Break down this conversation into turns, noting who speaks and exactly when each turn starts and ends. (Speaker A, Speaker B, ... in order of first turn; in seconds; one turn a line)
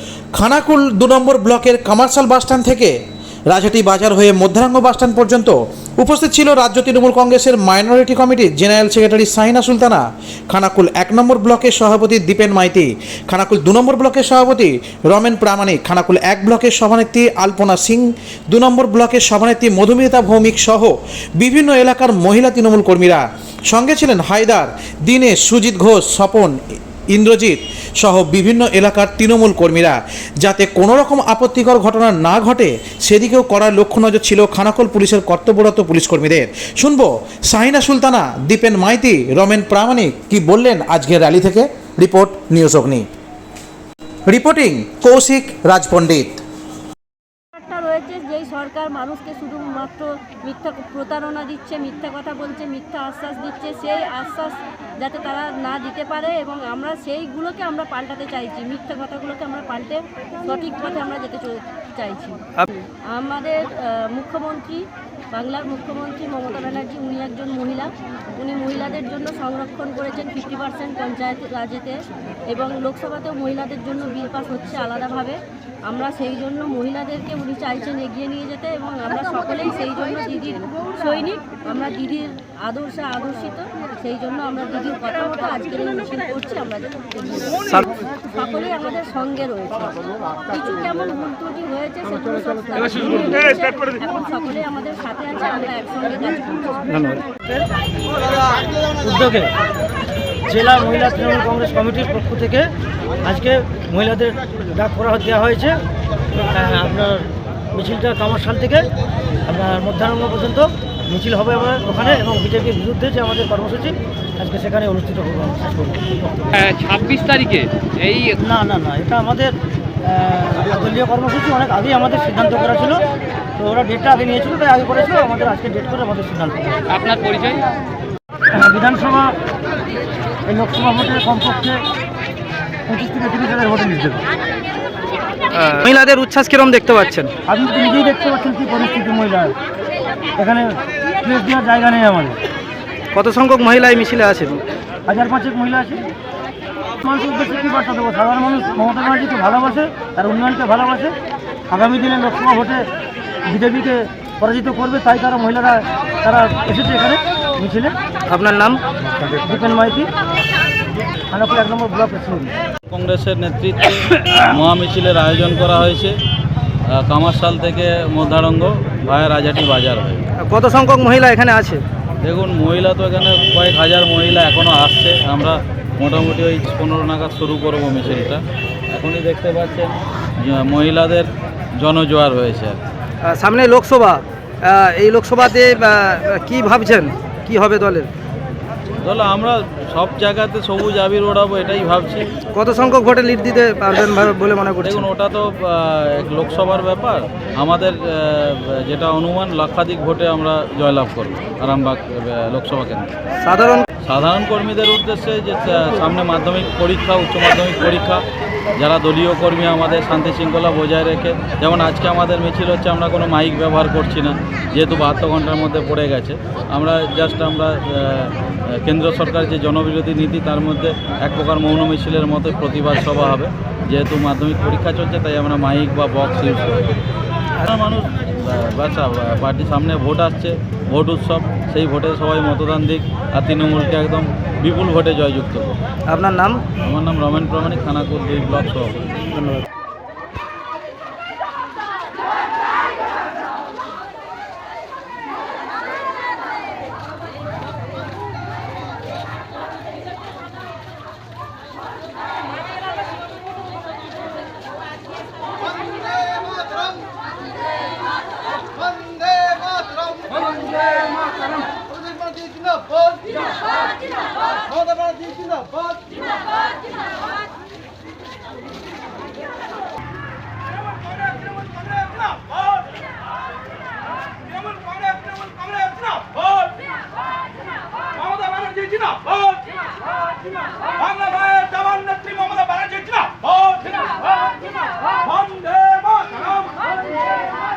Speaker A: 0.3-2.9
Speaker A: 3.5-26.6
Speaker A: 27.1-43.0
Speaker A: 44.3-46.4
Speaker B: 47.5-62.4
Speaker B: 63.0-96.8
Speaker C: 96.9-97.2
Speaker D: 97.3-97.7
Speaker D: 99.0-99.5
Speaker D: 100.5-102.7
Speaker D: 103.2-105.8
Speaker D: 106.5-108.9
Speaker D: 109.5-116.6
Speaker E: 116.6-118.3
Speaker D: 118.4-123.0
Speaker D: 123.6-126.8
Speaker E: 126.9-127.7
Speaker D: 128.5-129.3
Speaker D: 130.4-131.8
Speaker D: 132.9-134.2
Speaker C: 135.5-137.3
Speaker D: 137.5-139.6
Speaker D: 140.4-142.4
Speaker C: 143.1-144.6
Speaker D: 145.1-146.0
Speaker D: 147.0-151.1
Speaker D: 151.7-152.8
Speaker D: 153.4-157.9
Speaker C: 158.3-158.8
Speaker D: 159.3-160.1
Speaker D: 161.3-162.5
Speaker F: 162.8-166.2
Speaker F: 166.9-170.2
Speaker C: 170.4-171.8
Speaker F: 172.2-182.8
Speaker C: 183.2-188.1
Speaker F: 189.0-192.3
Speaker C: 192.5-195.1
Speaker F: 194.8-203.1
Speaker C: 203.4-203.9
Speaker F: 204.0-208.2
Speaker F: 208.8-226.9
Speaker F: 227.6-235.7
Speaker C: 236.1-236.6
Speaker F: 236.8-239.2
Speaker C: 239.3-239.6
Speaker F: 270.8-272.9
Speaker F: 274.4-276.8
Speaker F: 278.1-279.8
Speaker F: 280.8-284.5
Speaker F: 285.0-286.9